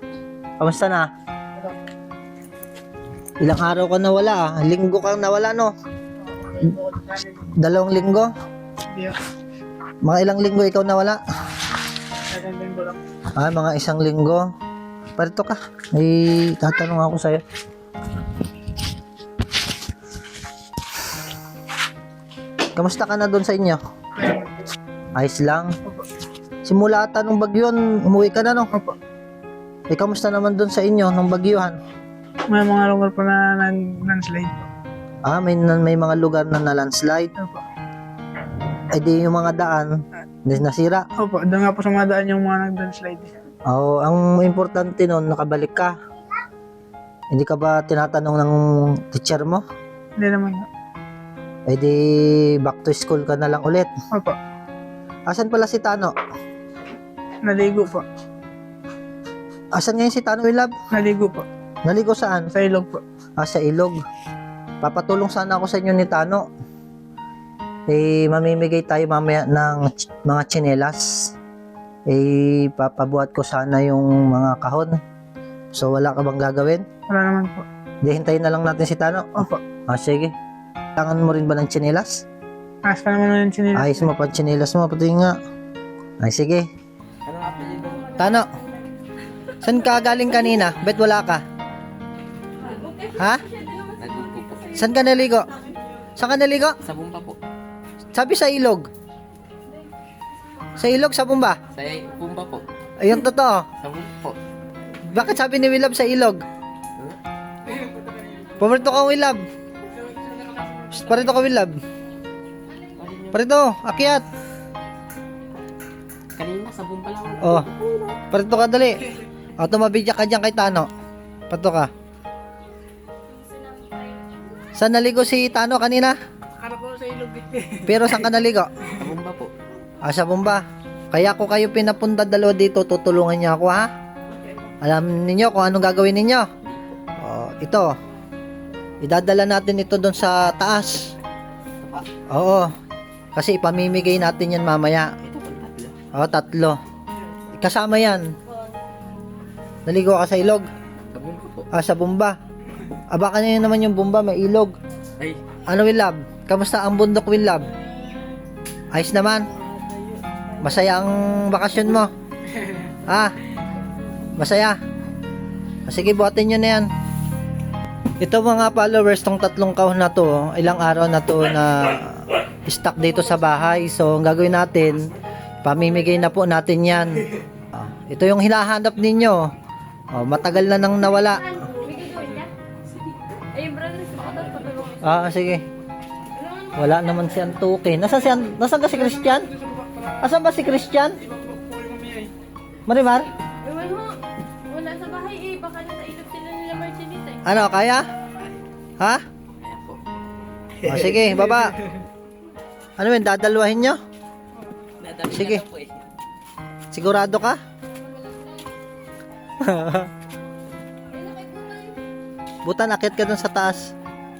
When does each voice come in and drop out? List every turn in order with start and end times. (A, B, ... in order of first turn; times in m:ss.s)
0:00.6-0:01.1 A
0:03.4-0:05.7 A
0:06.2-0:07.5 B
0:07.6-0:08.3 A
0:10.0-0:11.2 A
0:12.3-0:13.0 B
0:13.4-0:14.4 A
0:15.2-0:17.4 A
0:22.8-0:23.8 A
0:24.2-0:24.5 B
0:25.2-0:25.7 A
0:26.6-0:28.7 A
0:29.9-0:31.8 A
0:32.5-0:34.7 B
0:35.2-0:37.3 A
0:37.4-0:37.6 B
0:38.9-0:39.9 A
0:40.4-0:41.0 A
0:41.2-0:43.3 B
0:43.7-0:45.9 A
0:47.3-0:49.6 A
0:50.2-0:50.7 B
0:51.7-0:53.9 A
0:55.3-0:56.1 A
0:57.4-0:58.0 B
0:59.7-1:00.7 A
1:00.9-1:01.4 B
1:01.8-1:02.5 A
1:02.5-1:03.0 B
1:03.4-1:04.0 A
1:04.8-1:06.4 A
1:07.9-1:11.3 A
1:12.1-1:15.0 A
1:15.7-1:16.8 A
1:17.1-1:17.6 B
1:18.0-1:19.4 A
1:19.9-1:20.3 A
1:21.0-1:22.2 A
1:22.8-1:24.1 B
1:23.8-1:25.4 A
1:26.2-1:26.6 A
1:27.3-1:28.1 C
1:27.4-1:28.3 D
1:28.1-1:28.5 A
1:29.6-1:31.4 A
1:32.6-1:34.9 D
1:33.2-1:33.4 A
1:34.0-1:34.7 C
1:34.7-1:35.5 A
1:36.2-1:36.8 A
1:37.0-1:37.4 C
1:38.1-1:38.9 A
1:40.8-1:41.6 A
1:41.7-1:42.6 C
1:41.8-1:42.6 D
1:43.0-1:43.6 A
1:44.0-1:44.4 C
1:45.1-1:46.4 A
1:48.6-1:49.4 A
1:50.9-1:51.7 A
1:53.0-1:53.3 C
1:53.0-1:53.3 D
1:53.3-1:54.2 A
1:56.4-1:57.4 C
1:56.4-1:57.2 D
1:57.4-1:59.0 A
1:59.6-2:00.9 A
2:01.5-2:01.9 A
2:04.7-2:06.2 A
2:06.6-2:07.8 B
2:07.8-2:08.7 A
2:10.0-2:13.9 A
2:14.8-2:16.5 A
2:17.2-2:17.9 A
2:19.0-2:21.1 A
2:22.3-2:22.7 A
2:23.3-2:25.3 A
2:26.1-2:26.8 A
2:27.6-2:28.3 A
2:29.8-2:30.7 A
2:31.6-2:32.4 A
2:33.1-2:34.7 A
2:35.6-2:37.7 A
2:37.8-2:38.2 D
2:38.9-2:39.5 A
2:39.6-2:40.4 D
2:40.6-2:42.1 A
2:43.1-2:43.3 A
2:44.4-2:44.8 A
2:45.9-2:46.9 A
2:48.2-2:55.1 A
2:55.6-2:59.5 A
2:55.9-2:56.2 D
3:00.1-3:01.4 A
3:01.4-3:02.5 D
3:03.5-3:05.1 D
3:05.0-3:05.6 A
3:06.4-3:06.8 D
3:06.7-3:09.5 A
3:10.2-3:11.2 A
3:11.5-3:12.3 B
3:12.9-3:13.3 A
3:13.6-3:14.2 D
3:14.7-3:17.4 D
3:17.4-3:18.0 A
3:20.8-3:21.7 A
3:23.0-3:24.0 A
3:25.0-3:25.9 C
3:25.3-3:25.7 A
3:26.9-3:27.6 A
3:29.6-3:30.1 A
3:31.2-3:31.8 D
3:32.6-3:33.9 A